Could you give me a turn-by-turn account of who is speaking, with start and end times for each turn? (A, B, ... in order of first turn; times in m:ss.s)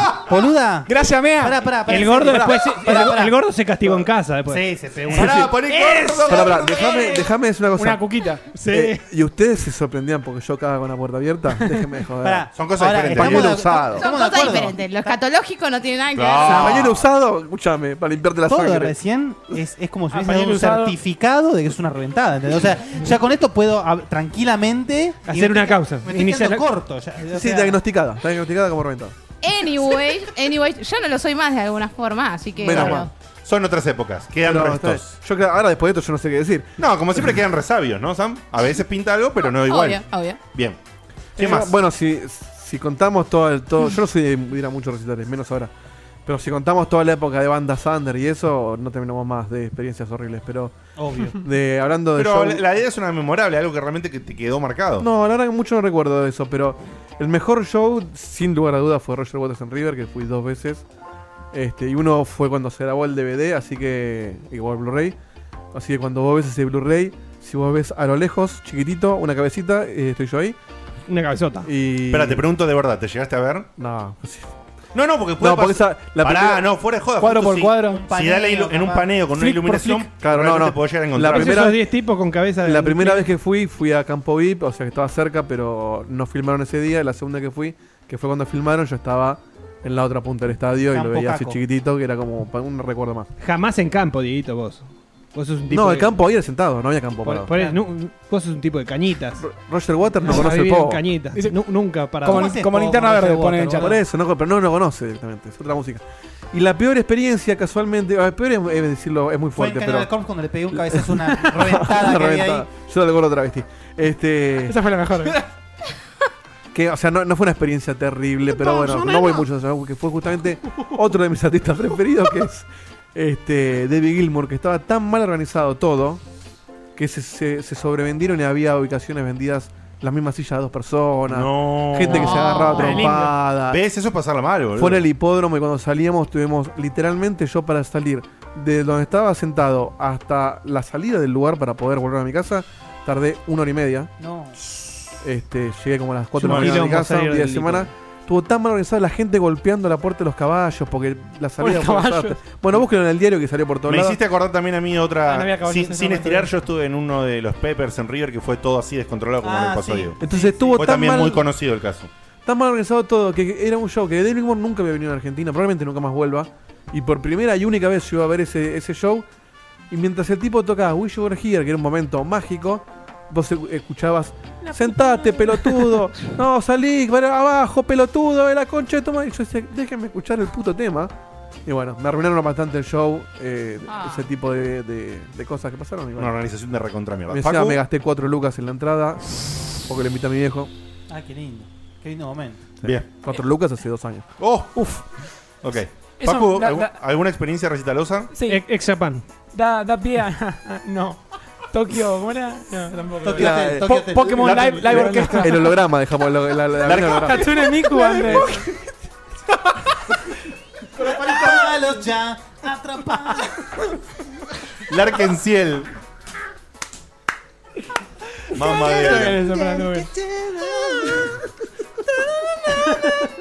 0:00.2-0:03.4 A
0:00.9-0:01.8 B
0:01.8-0:06.9 C
0:04.4-0:05.6 A
0:05.1-0:07.2 D
0:06.3-0:08.0 E
0:07.8-0:08.6 B
0:08.5-0:09.0 C
0:08.7-0:12.5 E
0:12.2-0:15.2 A
0:12.5-0:13.8 D
0:13.1-0:14.1 E
0:13.9-0:16.8 F
0:16.1-0:17.0 D
0:16.4-0:19.0 E
0:18.5-0:27.8 A
0:20.1-0:20.9 G
0:25.2-0:26.7 C
0:27.3-0:29.1 E
0:29.4-0:33.1 F
0:32.6-0:33.1 E
0:32.6-0:35.2 D
0:34.4-0:36.7 E
0:36.8-0:40.8 D
0:39.6-0:40.4 F
0:41.4-0:41.7 D
0:41.4-0:45.7 E
0:46.2-0:50.7 E
0:51.0-0:51.4 A
0:51.3-0:52.6 E
0:52.1-0:55.1 D
0:55.0-1:00.8 E
1:01.5-1:05.2 E
1:05.7-1:10.6 E
1:11.1-1:11.7 C
1:11.6-1:12.4 E
1:12.1-1:13.7 D
1:13.8-1:14.5 E
1:14.9-1:21.7 D
1:15.4-1:16.6 E
1:17.2-1:18.0 B
1:17.8-1:19.3 A
1:19.4-1:20.0 B
1:20.2-1:21.9 E
1:21.3-1:23.3 C
1:22.6-1:33.3 E
1:30.9-1:31.6 A
1:33.4-1:36.2 C
1:35.7-1:37.7 E
1:37.2-1:39.4 C
1:39.4-1:41.0 E
1:40.2-1:42.6 C
1:41.3-1:44.0 B
1:42.2-1:44.0 A
1:43.8-1:50.1 E
1:49.5-1:52.7 A
1:50.7-1:54.8 E
1:54.7-1:55.4 G
1:56.7-2:06.2 E
2:06.9-2:13.8 E
2:11.3-2:12.7 D
2:12.1-2:13.0 F
2:12.3-2:13.3 G
2:13.7-2:15.0 D
2:14.8-2:24.1 E
2:24.2-2:24.6 A
2:25.2-2:34.2 E
2:26.4-2:27.9 C
2:26.4-2:26.9 D
2:31.6-2:32.5 G
2:33.9-2:40.2 D
2:35.3-2:36.5 C
2:39.4-2:41.3 A
2:40.2-2:41.4 E
2:40.7-2:42.1 D
2:42.4-2:49.3 E
2:49.9-3:01.1 E
2:54.6-2:56.0 G
3:01.6-3:06.4 E
3:03.9-3:04.3 F
3:06.2-3:07.8 D
3:07.3-3:10.7 E
3:11.1-3:12.6 A
3:12.8-3:14.2 E
3:14.4-3:15.0 D
3:15.6-3:18.3 D
3:16.2-3:17.0 G
3:18.3-3:18.6 G
3:18.4-3:19.2 C
3:19.5-3:23.7 G
3:23.2-3:25.0 A
3:23.3-3:24.0 E
3:23.9-3:25.5 B
3:24.3-3:25.4 D
3:24.6-3:25.6 G
3:24.9-3:28.6 E
3:26.8-3:27.5 D
3:27.2-3:28.7 G
3:30.9-3:33.8 A
3:34.9-3:35.9 D
3:38.5-3:39.5 D
3:38.8-3:40.1 G
3:40.0-3:41.2 A